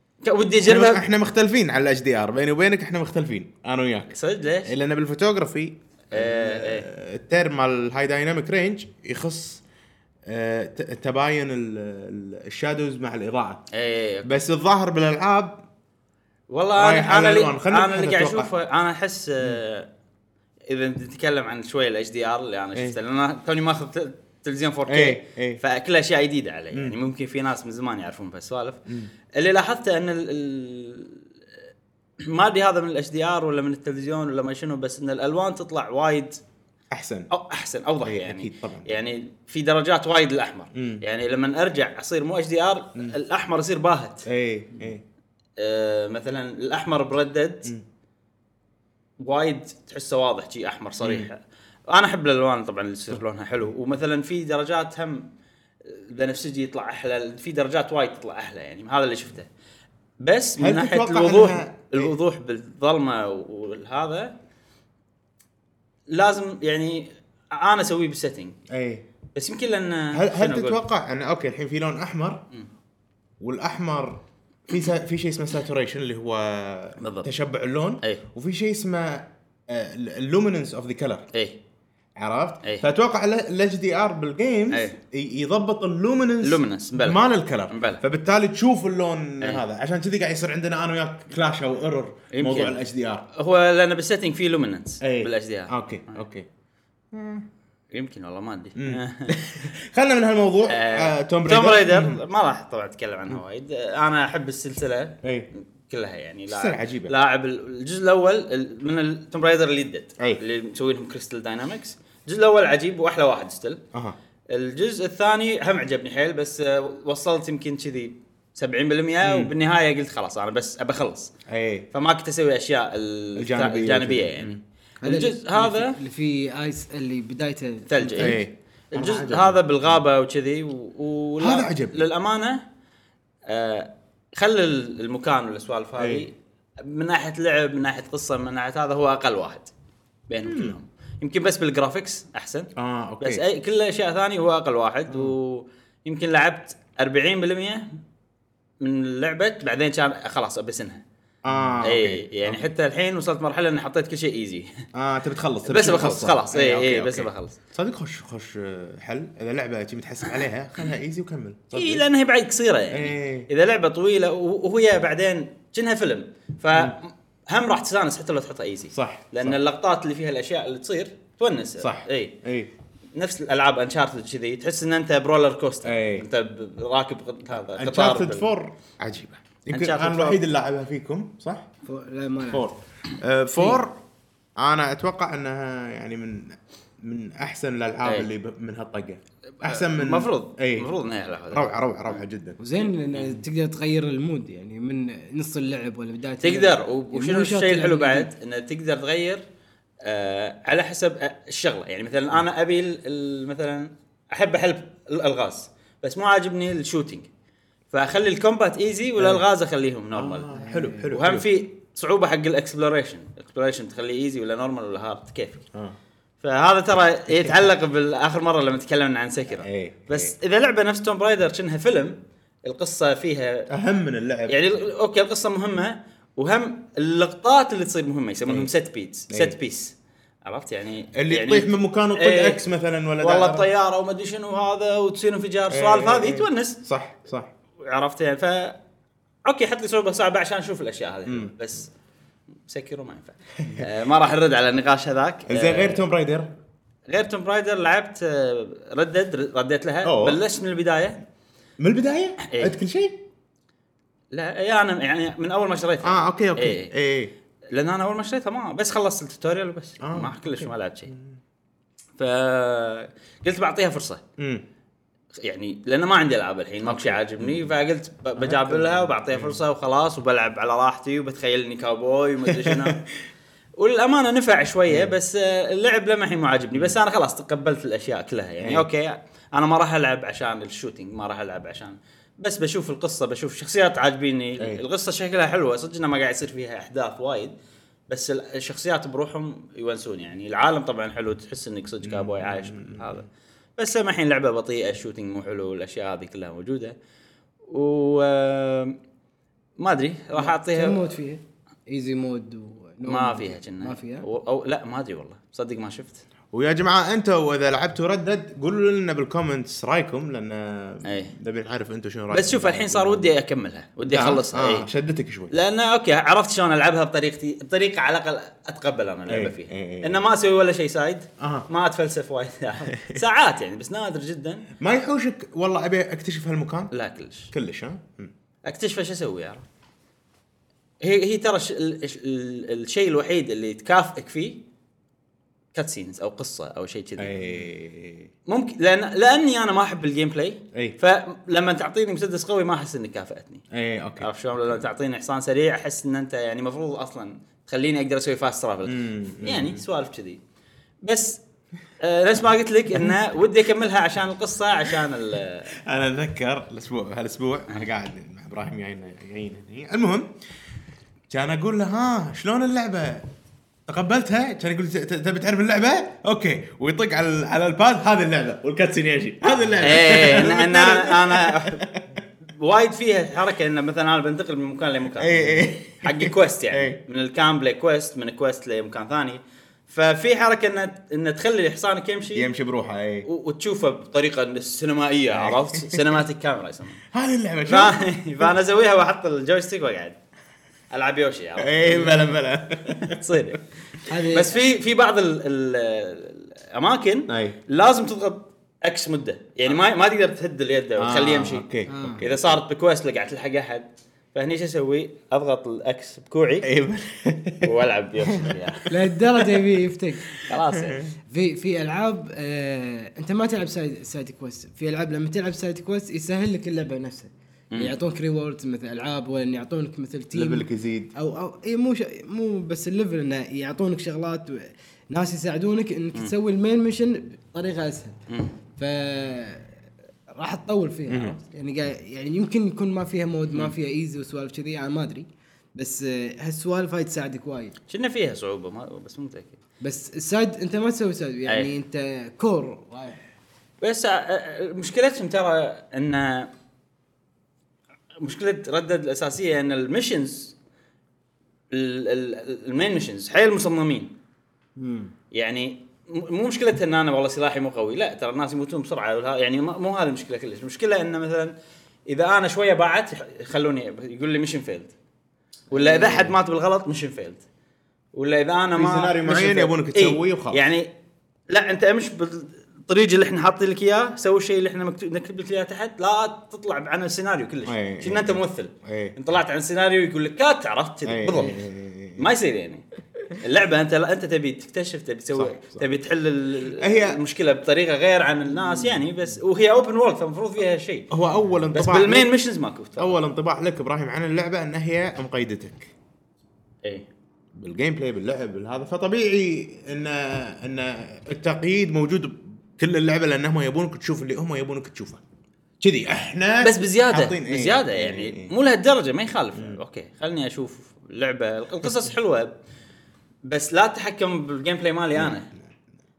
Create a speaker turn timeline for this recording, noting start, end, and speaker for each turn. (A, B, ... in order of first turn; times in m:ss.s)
0:00.2-0:01.0 A
0:00.6-0:09.6 B
0:04.1-0:04.7 A
0:06.1-0:06.9 A
0:10.2-0:13.6 B
0:13.7-0:14.4 A
0:14.2-0:15.6 B
0:16.5-0:19.9 A
0:16.8-0:18.5 B
0:20.7-0:28.8 A
0:24.9-0:25.6 B
0:29.3-0:31.2 A
0:32.2-0:36.4 A
0:36.9-0:37.3 B
0:37.3-0:44.2 A
0:38.0-0:39.0 B
0:40.7-0:41.0 B
0:44.2-0:45.0 B
0:45.6-0:47.7 A
0:49.2-0:55.3 A
0:51.0-0:51.3 B
0:55.8-0:59.5 A
1:00.2-1:04.4 A
1:00.6-1:02.1 B
1:06.1-1:08.6 A
1:08.7-1:09.0 B
1:09.3-1:10.8 A
1:10.1-1:12.4 B
1:13.4-1:21.2 B
1:17.0-1:17.3 A
1:21.3-1:21.6 A
1:22.2-1:33.2 B
1:24.7-1:25.0 A
1:26.4-1:28.0 A
1:32.3-1:32.8 A
1:33.3-1:36.2 A
1:35.0-1:36.5 B
1:37.1-1:37.5 B
1:37.9-1:39.4 A
1:38.8-1:42.2 B
1:40.7-1:53.8 A
1:45.2-1:45.5 B
1:46.5-1:47.1 B
1:54.5-2:01.3 A
1:59.2-1:59.5 B
2:01.5-2:01.9 B
2:01.9-2:06.0 A
2:03.4-2:04.6 B
2:05.0-2:08.4 C
2:07.9-2:08.4 A
2:08.2-2:10.0 B
2:08.9-2:12.6 A
2:11.4-2:12.0 B
2:13.5-2:19.7 A
2:16.0-2:16.2 B
2:20.3-2:22.7 A
2:20.4-2:20.8 B
2:22.8-2:23.4 B
2:23.2-2:27.9 A
2:28.8-2:31.0 A
2:31.4-2:32.7 B
2:31.8-2:34.8 A
2:34.9-2:42.0 B
2:35.6-2:37.6 A
2:41.7-2:52.4 A
2:42.9-2:43.5 B
2:48.9-2:49.6 B
2:51.8-2:52.7 B
2:53.1-2:58.5 A
2:55.8-2:56.3 B
2:57.7-3:01.7 B
2:59.7-3:00.4 A
3:01.8-3:02.6 C
3:02.5-3:04.0 B
3:04.6-3:10.9 B
3:09.6-3:12.2 A
3:11.5-3:12.6 B
3:12.6-3:18.3 C
3:13.1-3:13.4 A
3:16.4-3:19.4 A
3:20.0-3:27.3 A
3:27.9-3:30.5 A
3:29.2-3:29.4 B
3:30.1-3:31.5 B
3:30.5-3:31.1 C
3:31.1-3:35.6 A
3:36.4-3:43.7 A
3:37.3-3:37.6 B
3:39.5-3:40.3 B
3:43.7-3:44.6 B
3:44.5-3:52.6 A
3:49.3-3:49.6 B
3:51.1-3:53.7 B
3:53.2-3:56.8 A
3:55.7-3:57.5 B
3:57.8-3:58.8 A
3:59.4-4:01.9 A
4:01.2-4:01.5 B
4:02.7-4:06.0 A
4:03.6-4:03.9 B
4:05.5-4:06.5 B
4:07.1-4:11.2 A
4:10.0-4:10.4 B
4:11.8-4:13.2 B
4:12.4-4:12.8 A
4:14.3-4:16.9 A
4:16.0-4:17.3 B
4:17.7-4:21.1 A
4:20.0-4:21.4 B
4:22.2-4:24.2 A
4:24.4-4:24.6 B
4:25.4-4:33.0 A
4:26.8-4:27.7 B
4:28.4-4:29.6 B
4:32.5-4:33.0 B
4:33.8-4:47.5 A
4:34.9-4:35.1 B
4:38.6-4:38.9 B
4:44.6-4:44.8 B
4:48.1-4:56.9 A
4:52.0-4:53.2 B
4:57.7-4:59.0 A
4:59.8-5:01.1 A
5:00.4-5:04.2 C
5:03.0-5:06.2 A
5:06.5-5:13.3 B
5:11.0-5:11.3 A
5:12.3-5:14.9 A
5:14.0-5:15.6 B
5:15.5-5:24.6 A
5:19.3-5:20.2 B
5:21.4-5:21.7 B
5:22.9-5:23.2 B
5:24.8-5:26.9 B
5:26.9-5:27.5 A
5:27.5-5:28.3 B
5:28.6-5:29.6 A
5:31.0-5:34.6 A
5:35.7-5:37.6 A
5:37.2-5:38.3 B
5:38.5-5:43.6 A
5:43.7-5:44.3 B
5:44.2-5:50.4 A
5:48.8-5:49.8 B
5:51.0-5:51.4 A
5:52.0-5:55.7 A
5:55.7-6:00.3 B
6:01.3-6:03.3 B
6:03.9-6:12.2 B
6:09.8-6:11.8 A
6:12.5-6:22.5 A
6:15.2-6:17.0 B
6:22.3-6:23.3 B
6:23.2-6:27.0 A
6:25.3-6:26.1 B
6:27.1-6:28.5 B
6:27.6-6:30.2 A
6:30.9-6:46.7 A
6:31.6-6:33.6 B
6:34.1-6:34.6 C
6:37.3-6:37.6 B
6:41.0-6:42.6 B
6:41.9-6:42.2 C
6:46.6-6:47.7 B
6:47.6-6:48.9 A
6:48.4-6:50.4 C
6:50.4-6:51.1 A
6:50.8-6:51.1 B
6:51.3-7:08.2 C
7:00.3-7:01.1 B
7:08.3-7:08.5 A
7:08.8-7:09.7 C
7:10.3-7:17.7 C
7:11.1-7:11.4 B
7:17.9-7:19.6 A
7:19.8-7:23.2 C
7:23.8-7:26.5 A
7:28.2-7:30.5 A
7:31.7-7:34.1 A
7:34.8-7:35.1 C
7:35.3-7:41.5 A
7:42.1-7:44.9 A
7:45.7-7:47.4 A
7:45.7-7:46.3 C
7:48.1-7:50.9 A
7:48.7-7:50.6 B
7:51.5-8:01.6 A
7:57.6-7:59.2 B
8:01.0-8:02.2 B
8:02.2-8:11.1 A
8:05.3-8:05.8 B
8:06.7-8:07.2 B
8:11.1-8:12.3 B
8:11.7-8:13.2 A
8:13.0-8:15.9 B
8:17.5-8:25.2 B
8:25.8-8:28.5 B
8:26.6-8:32.5 A
8:33.4-8:35.5 A
8:35.1-8:35.7 B